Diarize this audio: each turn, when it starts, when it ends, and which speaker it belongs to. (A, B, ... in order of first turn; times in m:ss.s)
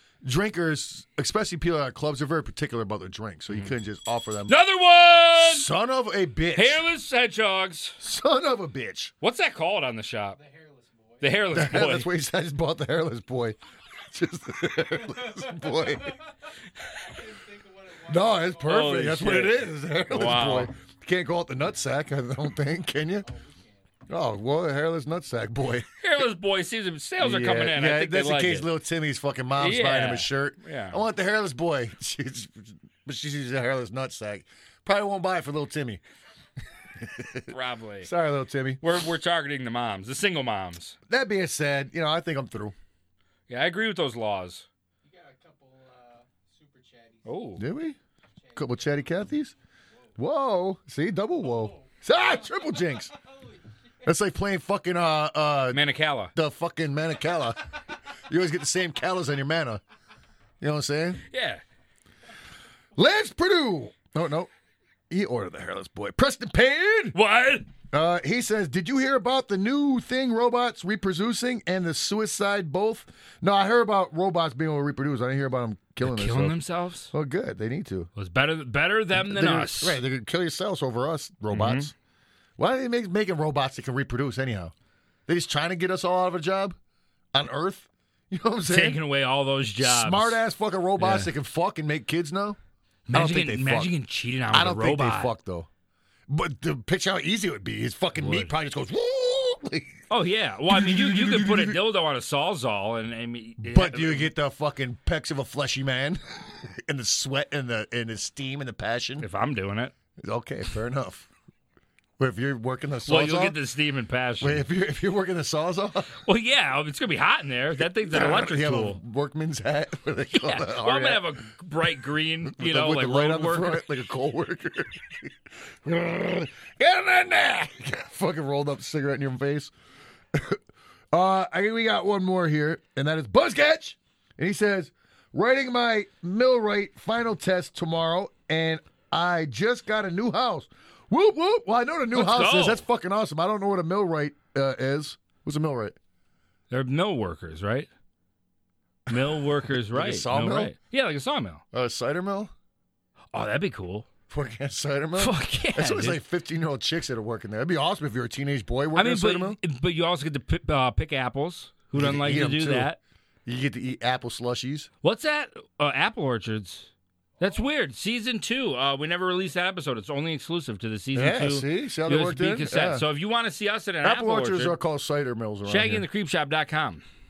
0:00.2-0:04.6 A
0:04.5-0:05.7 B
0:05.4-0:06.8 A
0:06.5-0:08.0 B
0:08.0-0:09.1 A
0:09.2-0:10.4 B
0:10.4-0:11.4 C
0:11.2-0:12.1 B
0:11.5-0:16.2 A
0:15.0-0:16.3 C
0:16.8-0:19.0 C
0:18.1-0:23.3 A
0:18.7-0:20.7 B
0:23.2-0:23.9 C
0:24.1-0:25.9 A
0:26.0-0:28.7 B
0:27.2-0:36.0 A
0:29.6-0:31.0 B
0:37.0-0:38.8 A
0:37.5-0:38.1 B
0:38.8-0:41.0 B
0:41.1-0:42.8 A
0:43.5-0:44.7 B
0:45.0-0:47.7 C
0:47.2-0:47.6 B
0:47.6-0:48.0 A
0:48.4-0:49.3 C
0:48.6-0:49.5 A
0:50.2-0:53.1 A
0:51.4-0:54.0 C
0:54.0-0:55.8 A
0:55.7-0:56.3 B
0:56.4-0:59.8 A
1:00.6-1:01.2 A
1:01.3-1:01.6 B
1:03.0-1:04.5 A
1:05.1-1:07.2 A
1:07.1-1:07.7 B
1:07.9-1:16.6 A
1:16.0-1:17.1 B
1:17.1-1:18.1 A
1:18.2-1:20.0 B
1:19.2-1:21.9 A
1:21.5-1:21.9 B
1:22.6-1:24.7 A
1:25.3-1:26.8 A
1:27.3-1:29.0 A
1:28.7-1:30.4 B
1:29.8-1:32.6 A
1:31.0-1:31.3 B
1:33.1-1:35.3 B
1:33.1-1:33.9 A
1:34.5-1:35.7 A
1:36.3-1:40.0 A
1:38.2-1:38.5 B
1:40.1-1:44.3 B
1:40.7-1:41.8 A
1:43.6-1:49.3 A
1:49.2-1:49.9 B
1:50.2-1:51.3 A
1:52.2-1:53.6 A
1:53.0-1:54.6 B
1:54.4-1:56.2 A
1:56.2-1:59.0 B
1:58.0-2:01.3 A
2:00.3-2:03.8 B
2:02.5-2:09.7 A
2:10.3-2:10.6 A
2:11.1-2:26.0 A
2:22.1-2:22.8 B
2:26.7-2:27.9 B
2:29.1-2:31.6 B
2:29.1-2:30.7 A
2:31.7-2:32.5 A
2:33.3-2:34.1 B
2:34.3-2:39.6 A
2:35.2-2:36.2 B
2:38.9-2:43.0 B
2:42.0-2:42.9 A
2:43.5-2:44.9 A
2:45.0-2:54.8 B
2:51.1-2:53.1 A
2:54.0-2:56.0 A
2:55.6-2:57.0 B